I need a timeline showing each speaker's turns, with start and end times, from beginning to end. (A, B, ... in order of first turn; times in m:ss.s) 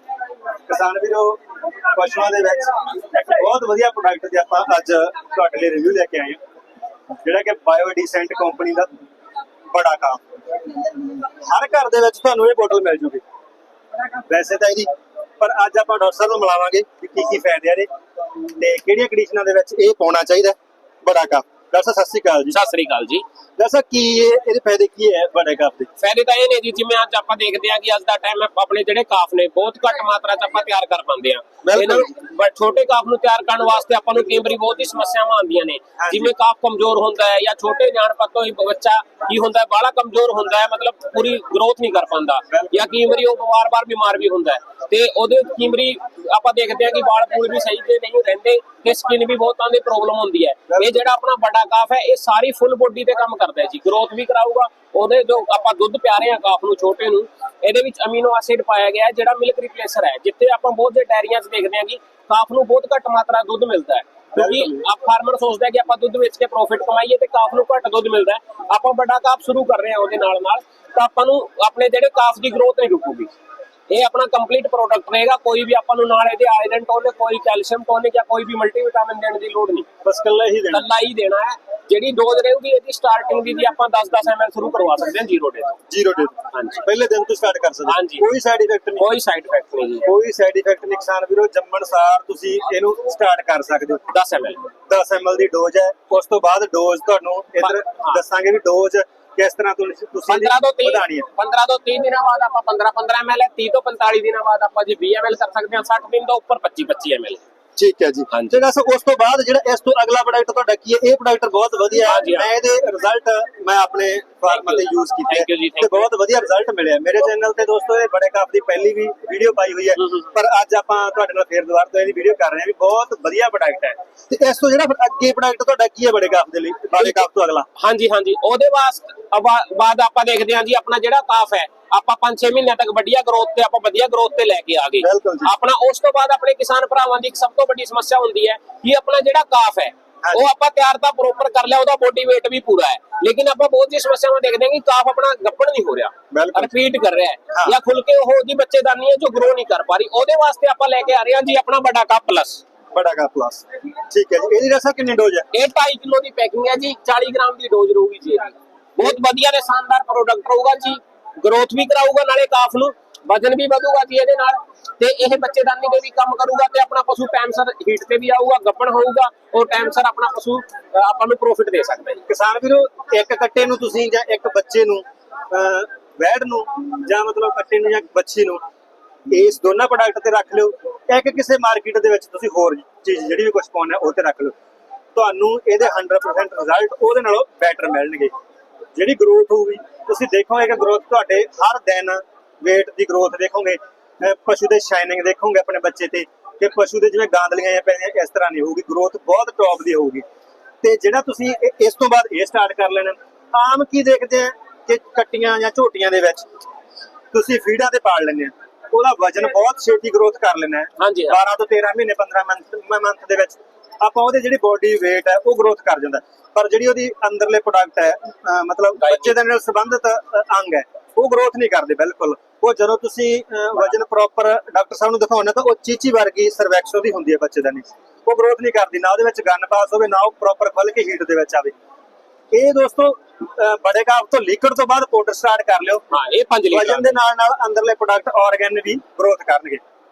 0:00.7-0:06.4 A
0:07.2-0:08.9 A
0:09.7-0:10.2 A
0:11.1-0:13.2 A
0:14.3-0:14.9 A
0:15.4-0:17.9 A
0:18.6-0:22.6 A
0:22.5-0:23.2 B
0:23.6-0:25.9 A
0:26.0-1:13.3 B
0:31.6-0:32.1 A
0:36.0-0:36.3 A
0:42.5-0:42.9 A
0:50.7-0:51.0 A
1:04.3-1:04.8 A
1:13.9-1:19.9 B
1:20.0-1:20.8 A
1:20.7-1:25.8 B
1:25.9-1:29.0 A
1:26.5-1:26.8 B
1:27.9-1:28.2 B
1:29.0-1:30.1 B
1:30.0-1:34.0 A
1:34.1-1:34.6 B
1:34.9-1:41.3 A
1:37.6-1:38.2 B
1:40.3-1:47.4 B
1:47.8-2:07.7 A
1:48.3-1:48.6 B
1:52.0-1:52.5 B
1:54.5-1:56.1 B
2:06.9-2:07.2 B
2:07.8-2:32.6 B
2:15.0-2:15.5 A
2:26.3-2:26.7 A
2:32.9-2:35.5 A
2:35.5-2:52.2 B
2:52.3-2:58.6 A
2:59.3-3:04.5 A
3:05.1-3:08.3 A
3:08.9-3:20.2 A
3:20.8-3:26.4 A
3:27.3-3:51.7 A
3:31.0-3:31.4 B
3:39.0-3:39.3 B
3:52.5-3:56.0 A
3:56.1-3:57.1 B
3:56.7-3:59.8 A